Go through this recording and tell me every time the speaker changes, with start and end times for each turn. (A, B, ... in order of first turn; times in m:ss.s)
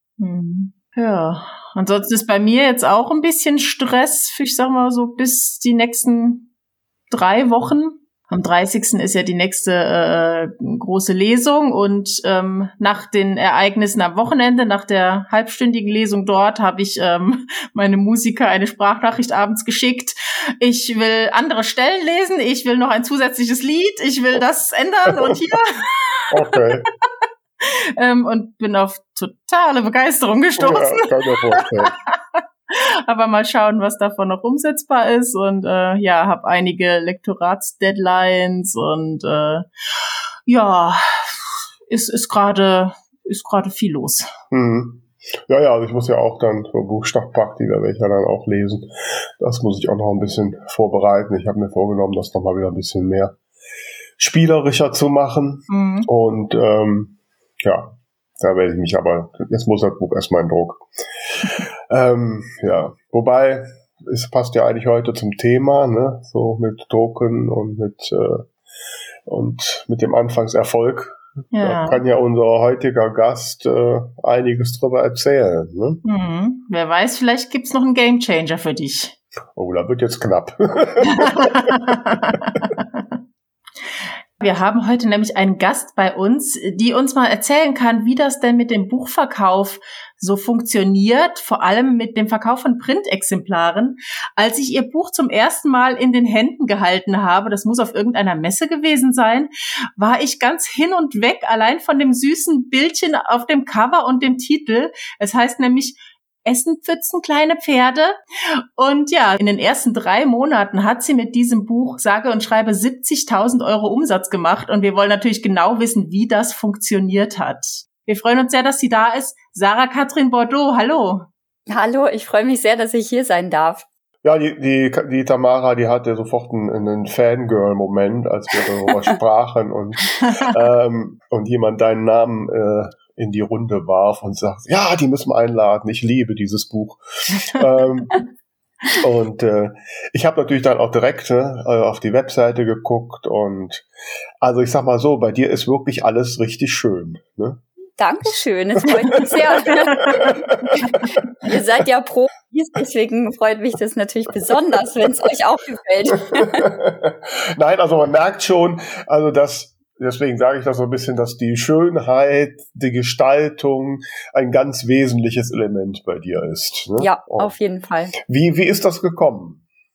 0:00.2-0:06.5 A
0:07.1-0:26.3 A
0:26.3-0:26.9 B
0:27.6-0:39.6 A
0:30.6-0:31.9 B
0:40.5-0:44.3 A
0:44.5-0:53.4 B
0:54.2-1:00.8 B
0:55.7-0:56.1 A
1:01.4-1:08.5 B
1:09.3-1:16.0 B
1:11.5-1:12.0 A
1:16.0-1:19.2 A
1:19.5-1:22.6 B
1:21.1-1:23.0 A
1:24.4-1:48.2 A
1:48.8-2:01.3 A
2:01.7-2:03.8 C
2:04.2-2:18.2 B
2:19.0-2:23.8 B
2:24.4-2:27.6 B
2:28.0-2:30.3 C
2:28.9-2:31.1 B
2:30.9-2:36.7 C
2:36.3-2:47.5 B
2:47.0-2:48.1 C
2:48.2-2:49.6 B